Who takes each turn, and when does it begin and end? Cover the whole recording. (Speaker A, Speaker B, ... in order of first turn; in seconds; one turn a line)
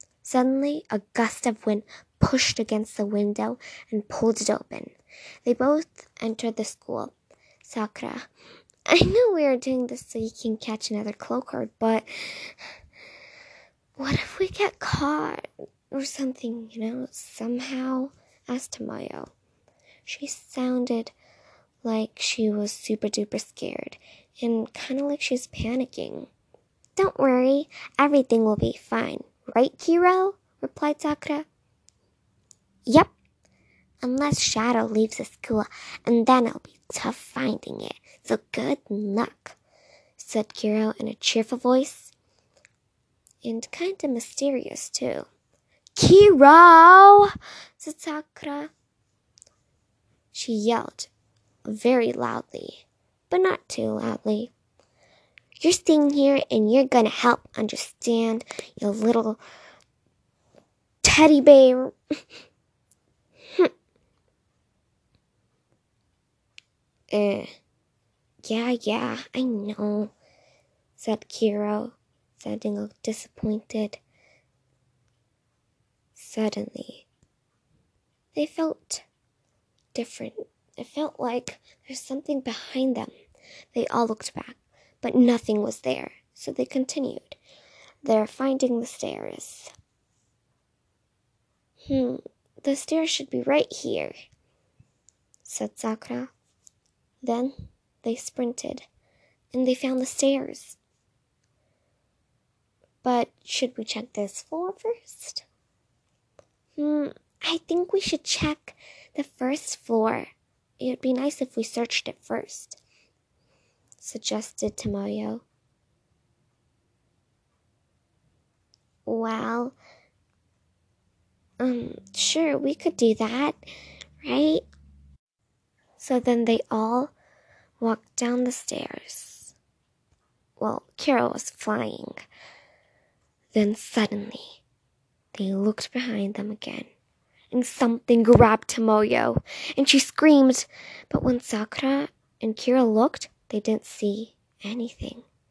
Speaker A: 0.2-4.9
Speaker A: 5.4-7.1
Speaker A: 7.6-8.3
Speaker A: 8.9-12.6
Speaker A: 14.0-19.3
Speaker A: 20.0-21.1
Speaker A: 21.8-26.3
Speaker A: 26.9-31.5
Speaker A: 34.0-39.6
Speaker A: 40.2-42.1
Speaker A: 43.4-45.3
Speaker A: 46.0-48.7
Speaker A: 50.3-51.1
Speaker A: 51.6-54.5
Speaker A: 55.6-59.4
Speaker A: 61.0-61.9
Speaker A: 67.1-67.5
Speaker A: 68.4-70.1
Speaker A: 71.0-74.0
Speaker A: 76.1-77.1
Speaker A: 78.3-79.0
Speaker A: 79.9-83.1
Speaker A: 83.7-87.4
Speaker A: 88.0-89.7
Speaker A: 91.9-94.1
Speaker A: 95.4-96.3
Speaker A: 97.2-98.9
Speaker A: 99.5-100.8
Speaker A: 103.0-105.4
Speaker A: 106.8-110.3
Speaker A: 110.8-112.8
Speaker A: 114.0-115.4
Speaker A: 119.0-119.8
Speaker A: 121.6-123.6
Speaker A: 124.2-124.6
Speaker A: 126.0-127.1
Speaker A: 127.8-129.5
Speaker A: 130.6-132.2
Speaker A: 133.5-134.6
Speaker A: 135.3-136.9
Speaker A: 137.5-145.2